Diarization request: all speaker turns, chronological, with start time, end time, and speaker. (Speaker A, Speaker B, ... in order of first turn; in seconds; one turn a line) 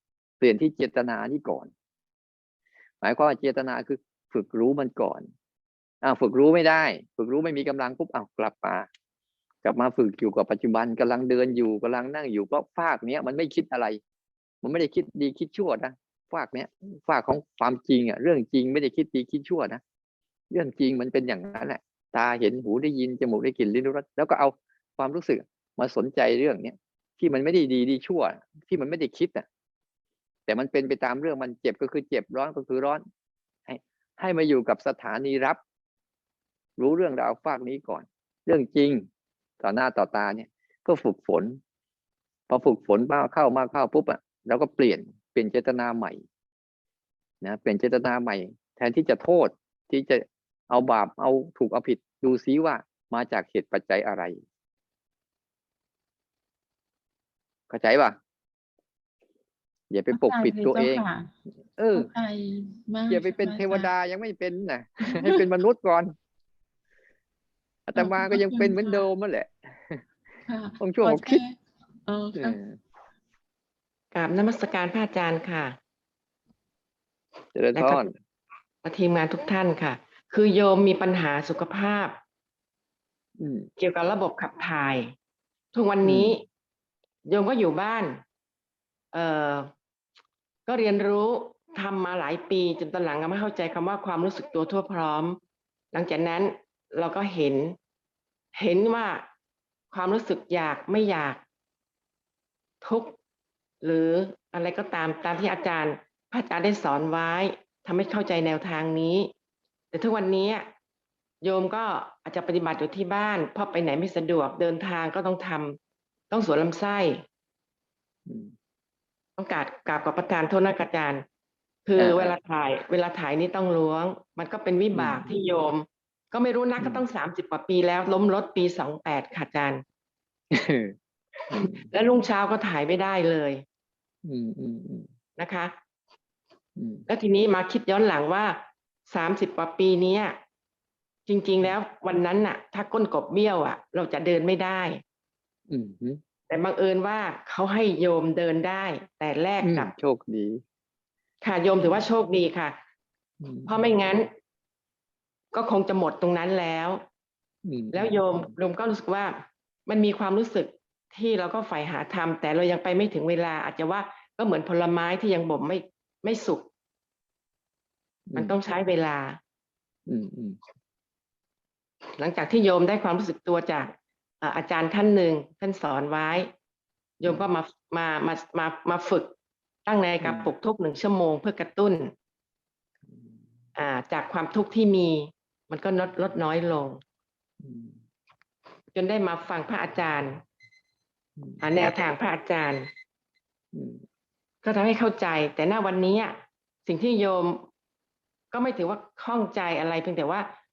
Speaker A: 0.4-1.7
Speaker A: 3.0-5.2
Speaker A: 6.0-8.9
Speaker A: 9.6-14.0
Speaker A: 14.6-19.8
Speaker A: 20.5-29.4
Speaker A: 30.5-33.0
Speaker A: 33.7-35.6
Speaker A: 36.8-39.0
Speaker A: 39.6-41.6
Speaker A: 42.5-46.2
Speaker A: 47.4-54.4
Speaker A: 57.7-58.2
Speaker A: 59.9-61.0
Speaker B: 60.1-61.3
Speaker A: 61.8-62.1
Speaker B: 61.9-63.9
Speaker A: 63.1-66.1
Speaker B: 65.0-65.5
Speaker A: 67.9-70.0
Speaker B: 67.9-69.0
Speaker B: 70.4-72.6
Speaker A: 70.8-71.4
Speaker A: 72.3-72.8
Speaker C: 74.1-75.8
Speaker A: 77.5-78.1
Speaker C: 77.8-78.1
Speaker C: 78.8-82.1
Speaker A: 83.4-83.7
Speaker C: 83.8-85.1
Speaker C: 85.7-86.4
Speaker A: 86.0-86.4
Speaker C: 87.2-88.2
Speaker C: 89.1-89.7
Speaker C: 90.7-95.4
Speaker C: 95.9-97.8
Speaker C: 98.5-99.2
Speaker C: 99.9-101.4
Speaker C: 102.8-103.1
Speaker C: 103.8-109.3
Speaker C: 109.9-110.7
Speaker C: 111.4-115.8
Speaker C: 116.3-117.2
Speaker A: 118.2-118.5
Speaker C: 119.4-121.2
Speaker C: 121.8-129.8
Speaker A: 122.0-122.3
Speaker A: 124.9-125.3
Speaker A: 126.8-127.0
Speaker A: 130.5-130.9
Speaker A: 131.5-131.8
Speaker C: 131.6-133.6
Speaker A: 134.2-135.1
Speaker C: 135.4-135.7
Speaker A: 136.8-137.1
Speaker C: 137.1-138.6
Speaker C: 139.1-140.4
Speaker C: 141.3-145.0
Speaker A: 145.7-146.2
Speaker C: 146.5-149.9
Speaker A: 149.6-150.6
Speaker C: 151.4-152.8
Speaker A: 153.4-153.9
Speaker C: 153.7-154.3
Speaker C: 155.5-157.0
Speaker A: 157.6-158.2
Speaker C: 157.9-166.7
Speaker A: 168.3-168.5
Speaker C: 168.3-169.4
Speaker A: 170.1-170.6
Speaker C: 172.2-176.5
Speaker C: 177.2-179.3
Speaker C: 179.8-182.1
Speaker A: 180.2-180.5
Speaker A: 183.1-183.4
Speaker C: 183.8-187.0
Speaker A: 187.6-188.0
Speaker C: 188.9-190.4
Speaker A: 191.4-191.6
Speaker C: 191.6-192.9
Speaker A: 193.7-194.0
Speaker C: 194.6-197.7
Speaker C: 198.5-200.5